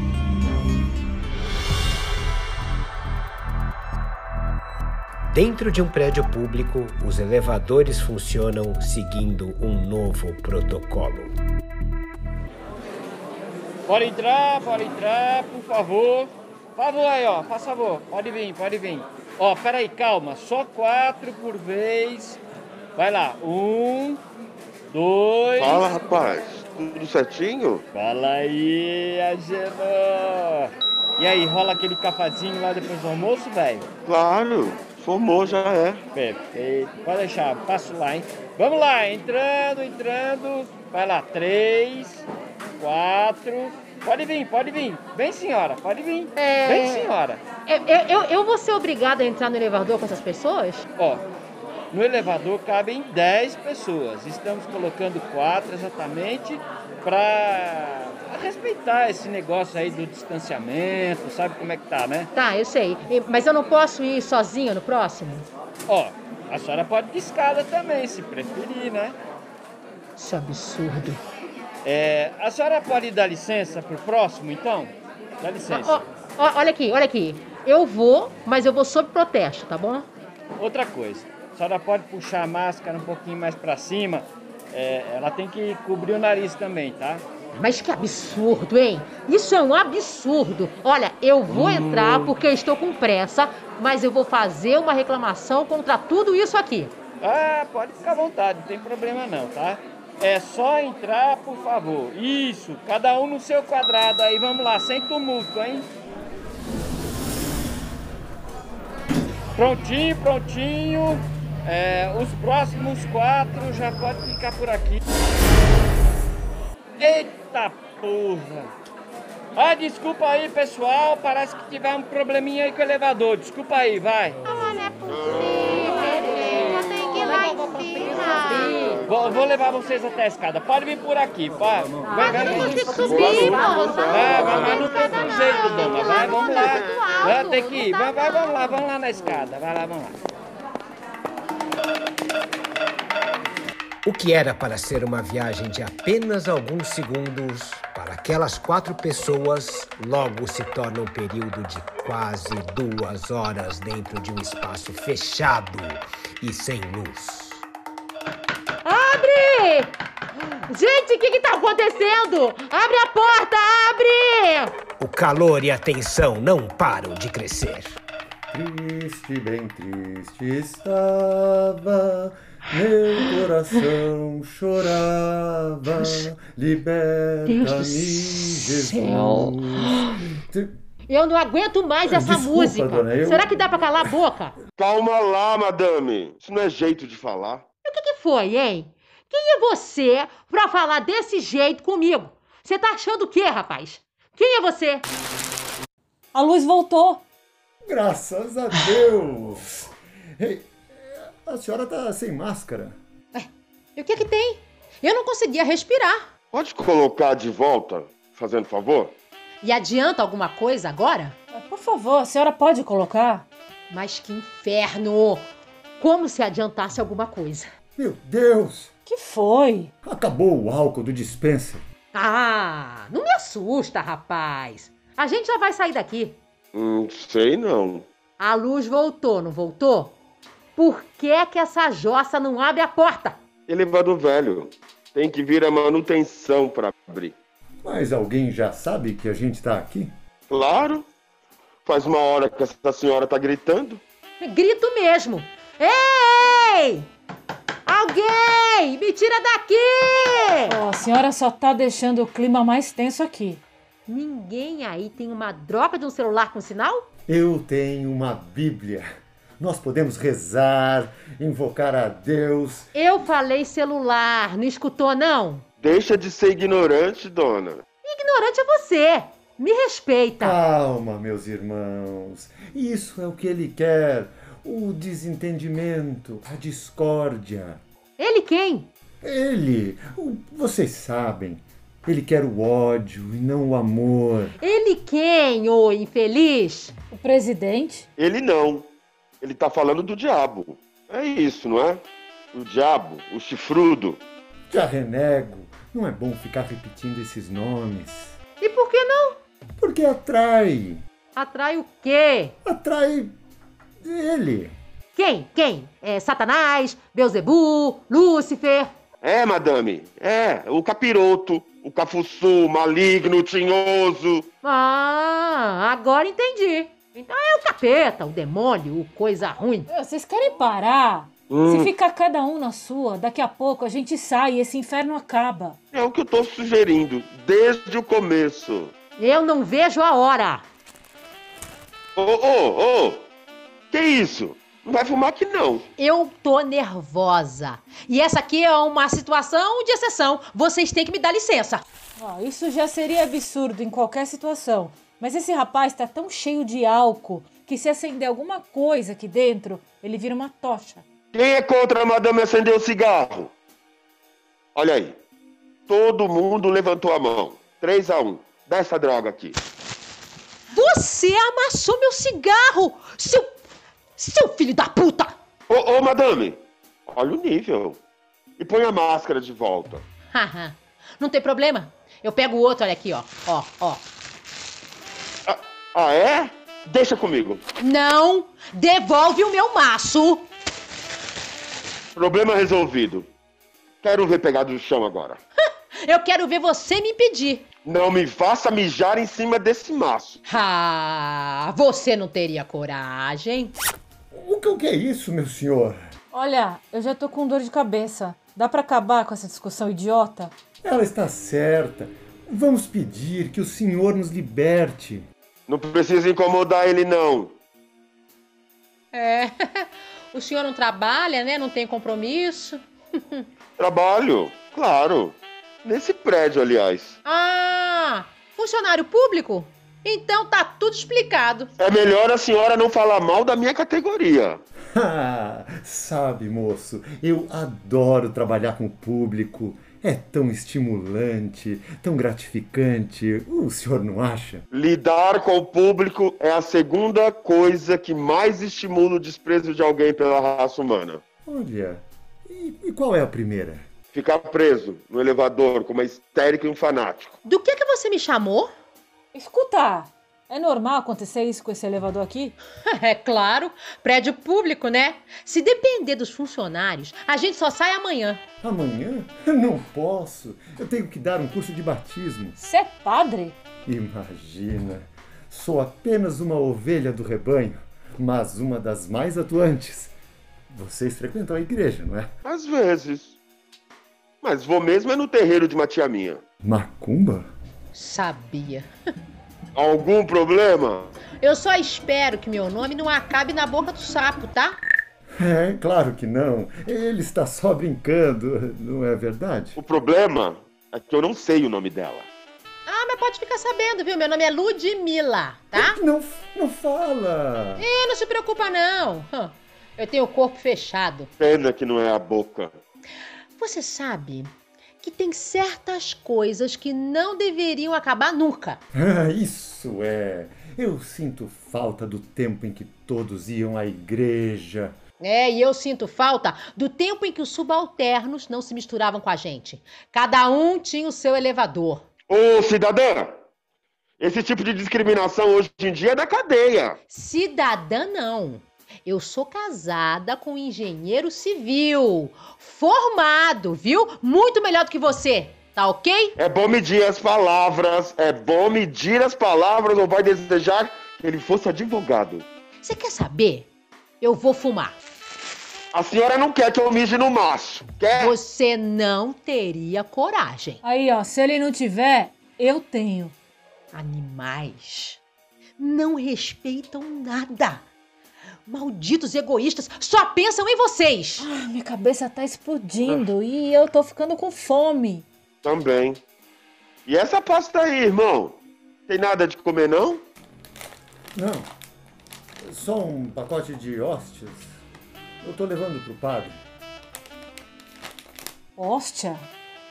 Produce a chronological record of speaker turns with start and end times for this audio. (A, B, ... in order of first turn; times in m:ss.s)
0:05.3-0:11.3 A
0:13.9-0:22.4 B
0:23.0-0:24.2 B
0:24.9-0:25.8 B
0:25.6-0:27.8 C
0:27.9-0:33.9 B
0:34.0-0:36.0 C
0:36.1-0:42.3 B
0:42.8-0:47.4 B
0:46.4-0:47.1 D
0:47.6-0:50.8 D
0:51.9-1:02.3 B
1:02.3-1:05.5 D
1:05.9-1:09.2 B
1:10.2-1:11.2 D
1:11.8-1:16.0 B
1:15.7-1:20.1 D
1:20.6-1:27.2 B
1:27.5-1:36.9 D
1:31.5-1:32.3 B
1:37.2-1:45.9 B
1:49.6-1:55.0 B
1:57.0-1:58.7 B
1:59.6-2:04.4 B
2:04.4-2:09.0 D
2:05.1-2:06.0 C
2:07.9-2:09.4 C
2:09.0-2:20.2 B
2:12.0-2:18.8 D
2:12.5-2:17.3 C
2:24.0-2:37.6 A
2:38.8-2:40.0 D
2:40.7-2:44.7 D
2:45.0-2:48.0 A
2:48.5-3:00.7 E
3:01.1-3:04.6 D
3:02.0-3:03.7 E
3:04.8-3:07.6 C
3:07.8-3:15.0 D
3:16.3-3:17.2 F
3:17.9-3:19.7 E
3:20.4-3:23.0 E
3:23.3-3:26.3 D
3:26.5-3:29.1 C
3:29.6-3:31.4 D
3:31.5-3:33.5 F
3:33.9-3:37.7 D
3:38.0-3:38.9 E
3:39.0-3:39.9 F
3:40.0-3:41.8 E
3:42.1-3:46.4 D
3:46.7-3:48.0 C
3:48.4-3:50.2 D
3:50.8-3:53.4 D
3:53.7-3:57.4 C
3:57.8-4:00.1 E
4:00.5-4:01.0 C
4:01.8-4:04.0 C
4:04.4-4:07.1 D
4:07.8-4:10.8 D
4:10.7-4:13.6 F
4:14.1-4:17.0 D
4:17.3-4:19.0 E
4:19.6-4:22.9 E
4:22.9-4:25.6 D
4:25.8-4:27.8 C
4:28.0-4:30.6 D
4:30.4-4:37.8 E
4:38.2-4:38.9 D
4:39.2-4:44.6 E
4:44.6-4:47.0 D
4:47.1-4:48.1 F
4:48.2-4:54.2 C
4:54.7-4:58.4 E
4:58.6-4:59.4 D
4:59.8-5:01.0 E
5:01.3-5:02.6 D
5:02.6-5:03.3 E
5:04.0-5:04.7 E
5:05.1-5:08.9 D
5:09.2-5:14.5 C
5:14.6-5:19.9 D
5:19.9-5:25.8 F
5:21.5-5:21.9 C
5:25.9-5:28.9 C
5:29.2-5:30.6 D
5:32.2-5:33.3 C
5:33.9-5:35.8 C
5:36.0-5:41.8 D
5:42.2-5:51.0 F
5:51.3-5:53.5 C
5:54.7-5:55.2 C
5:55.9-5:59.6 C
6:00.7-6:03.6 D
6:04.2-6:05.3 D
6:05.7-6:08.0 C
6:08.6-6:10.0 C
6:10.3-6:14.1 D
6:15.5-6:17.6 C
6:17.8-6:20.5 D
6:22.2-6:23.3 C
6:24.0-6:25.4 C
6:26.0-6:27.6 D
6:27.8-6:30.4 C
6:30.5-6:33.8 D
6:34.3-6:36.0 E
6:36.3-6:40.5 F
6:40.8-6:45.2 E
6:45.7-6:47.5 C
6:49.1-6:53.4 D
6:53.8-6:57.2 C
6:57.2-7:01.7 D
7:01.8-7:04.6 C
7:04.9-7:14.6 E
7:14.7-7:21.2 C
7:21.4-7:23.8 E
7:24.1-7:27.3 C
7:27.4-7:28.7 D
7:29.3-7:32.6 F
7:33.0-7:38.4 D
7:38.6-7:42.6 E
7:42.6-7:43.6 F
7:43.8-7:50.1 E
7:50.7-7:52.3 E
7:52.4-7:53.3 C
7:54.4-7:56.4 C
7:56.6-7:57.5 E
7:57.9-7:58.9 D
7:59.7-8:01.2 C
8:01.4-8:04.8 D
8:05.4-8:09.8 E
8:09.8-8:12.3 C
8:12.9-8:16.0 D
8:15.7-8:17.8 E
8:17.8-8:21.3 D
8:21.4-8:22.7 C
8:23.6-8:28.8 D
8:28.9-8:34.9 E
8:35.2-8:42.0 D
8:42.3-8:43.3 C
8:44.2-8:47.0 C
8:47.1-8:56.3 D
8:56.4-9:02.4 C
9:02.8-9:03.7 D
9:04.2-9:05.0 D
9:05.9-9:08.4 C
9:08.1-9:10.8 D
9:10.8-9:13.3 F
9:13.9-9:15.2 D
9:15.8-9:17.8 D
9:18.6-9:21.5 D
9:21.4-9:25.2 F
9:25.6-9:26.2 C
9:27.0-9:30.2 C
9:31.3-9:31.7 E
9:32.6-9:34.8 E
9:35.4-9:36.6 E
9:38.8-9:39.4 F